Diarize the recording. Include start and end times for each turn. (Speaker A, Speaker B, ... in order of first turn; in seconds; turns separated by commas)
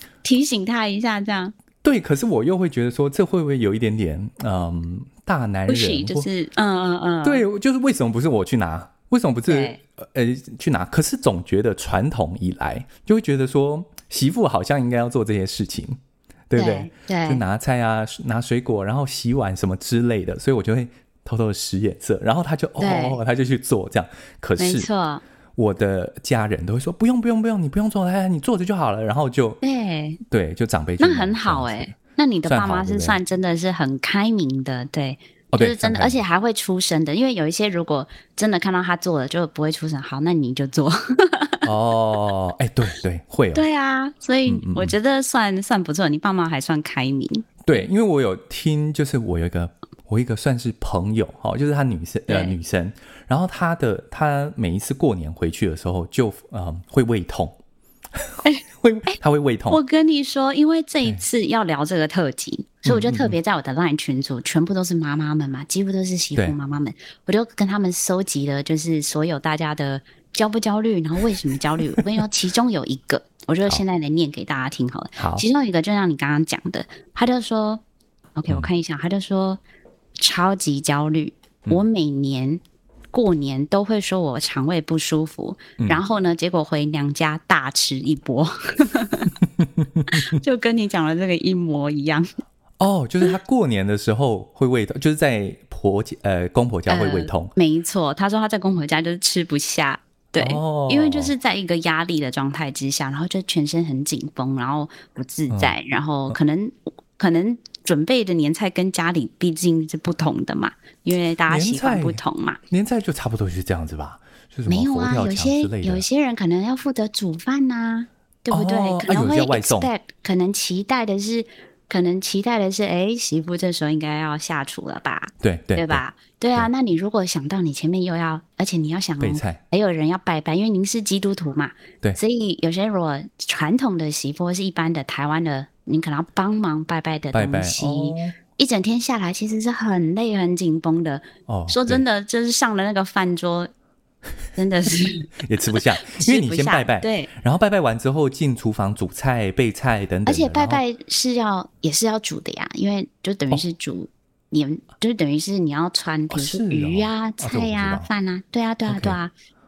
Speaker A: 0.2-1.5, Speaker B: 1.8-6.3, Speaker A: 5.7-7.4, Speaker B: 7.2-16.0, Speaker A: 9.5-9.8, Speaker B: 16.5-24.9, Speaker A: 16.6-17.4, Speaker A: 22.8-23.2, Speaker A: 24.6-25.2, Speaker B: 25.6-29.6, Speaker A: 29.6-30.2, Speaker B: 30.3-31.9, Speaker A: 31.0-41.7, Speaker B: 32.5-33.2, Speaker B: 35.5-36.2, Speaker B: 41.6-43.6, Speaker A: 43.5-47.8, Speaker B: 44.5-44.9, Speaker B: 47.6-57.6, Speaker A: 52.3-52.5, Speaker B: 58.1-59.8, Speaker A: 58.4-59.1, Speaker A: 59.7-77.8, Speaker B: 62.8-63.4, Speaker B: 75.2-75.4, Speaker A: 78.3-79.6, Speaker A: 80.2-82.6, Speaker A: 83.1-89.3, Speaker B: 89.4-90.2, Speaker A: 90.1-92.3, Speaker B: 92.8-97.5, Speaker A: 96.9-112.6, Speaker B: 100.4-101.3, Speaker B: 105.5-105.8, Speaker B: 111.5-116.0, Speaker A: 114.7-143.7, Speaker B: 118.5-119.9, Speaker B: 125.4-126.0, Speaker B: 129.2-129.6, Speaker B: 137.3-138.3, Speaker B: 141.5-142.0, Speaker A: 144.6-145.4, Speaker B: 145.4-150.8, Speaker A: 146.0-147.3, Speaker A: 150.2-159.3, Speaker B: 156.3-158.1, Speaker B: 158.9-159.2